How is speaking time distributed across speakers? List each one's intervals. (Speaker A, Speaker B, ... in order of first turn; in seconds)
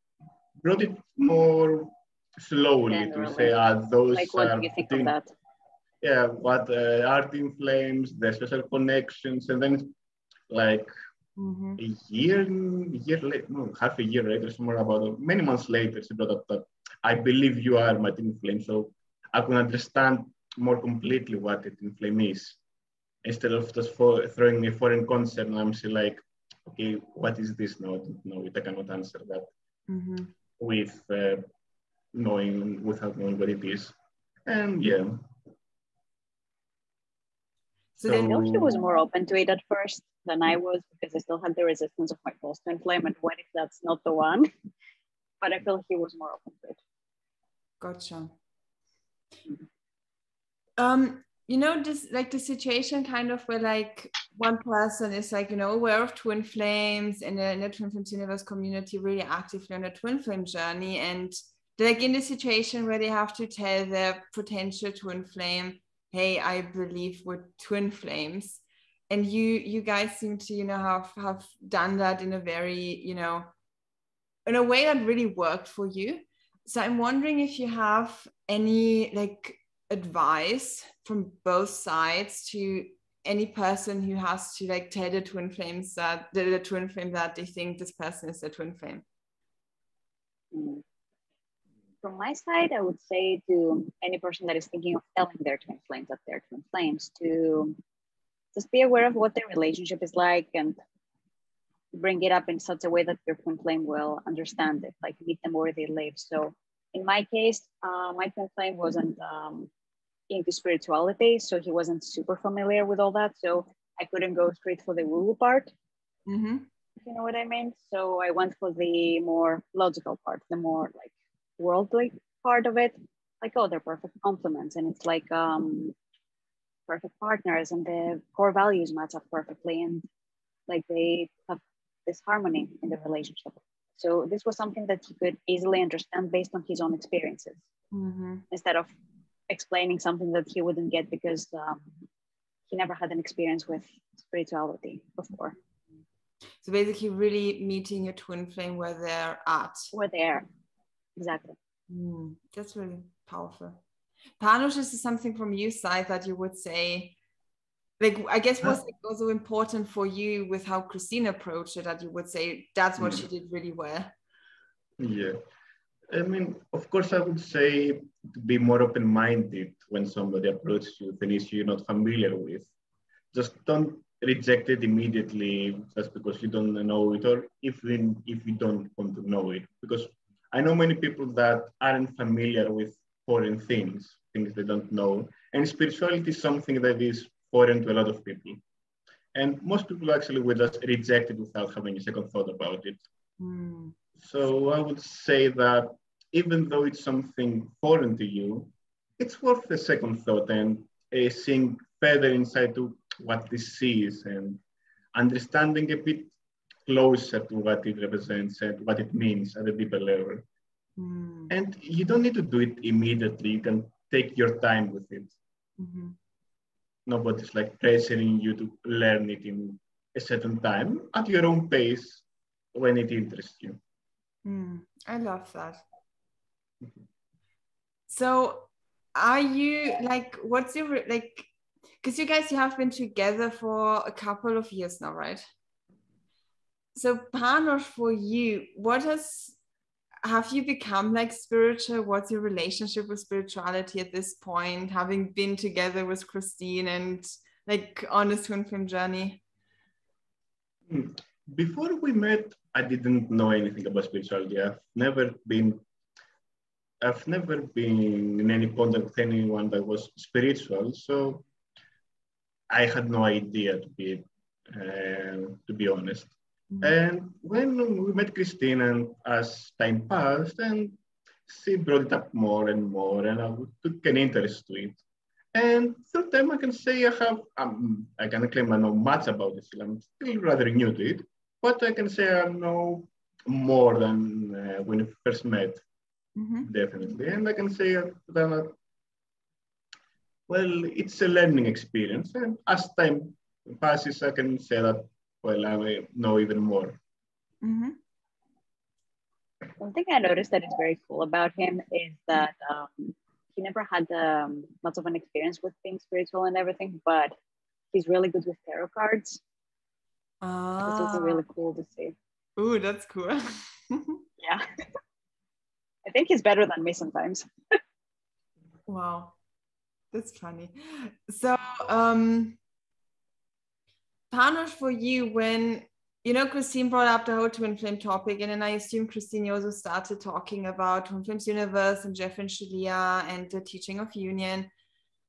Speaker A: 0.6-5.1, 6.0-9.9, 10.5-10.9, 11.8-22.6, 23.2-29.5, 30.6-31.5, 32.1-33.9, 34.5-35.3, 38.0-38.8, 163.0-163.3, 165.0-165.4, 166.1-172.7, 173.3-188.6, 189.3-193.0, 194.2-204.6, 205.1-206.3, 206.9-210.4, 211.5-215.4, 217.1-223.8, 250.9-255.8, 257.0-261.5, 262.7-275.0, 275.5-285.8, 286.6-288.8, 290.5-297.0
Speaker B: 2.9-3.6, 4.1-5.3, 38.0-44.5, 45.4-46.8, 90.5-90.8, 92.0-97.8, 98.5-100.8, 101.9-109.7, 110.3-115.7, 117.0-126.0, 126.9-130.1, 130.7-137.6, 138.5-138.9, 139.5-141.9, 142.7-145.6, 149.9-150.5, 151.2-151.6, 299.8-307.3, 307.9-309.4, 310.9-312.1, 314.4-314.6, 316.1-317.5
Speaker C: 11.4-11.8, 29.9-30.3, 38.0-38.3, 47.8-48.3, 50.8-73.5, 74.5-89.0, 116.3-116.7, 137.9-138.4, 146.6-149.9, 151.9-153.8, 154.4-157.2, 158.0-164.1, 193.4-193.9, 211.0-211.5, 215.8-216.2, 224.4-225.8, 228.1-231.5, 232.0-235.4, 236.9-239.6, 240.2-249.4, 286.4-286.7, 297.6-298.0, 310.4-311.4, 312.6-314.2, 318.9-319.4, 320.1-322.6, 324.3-334.7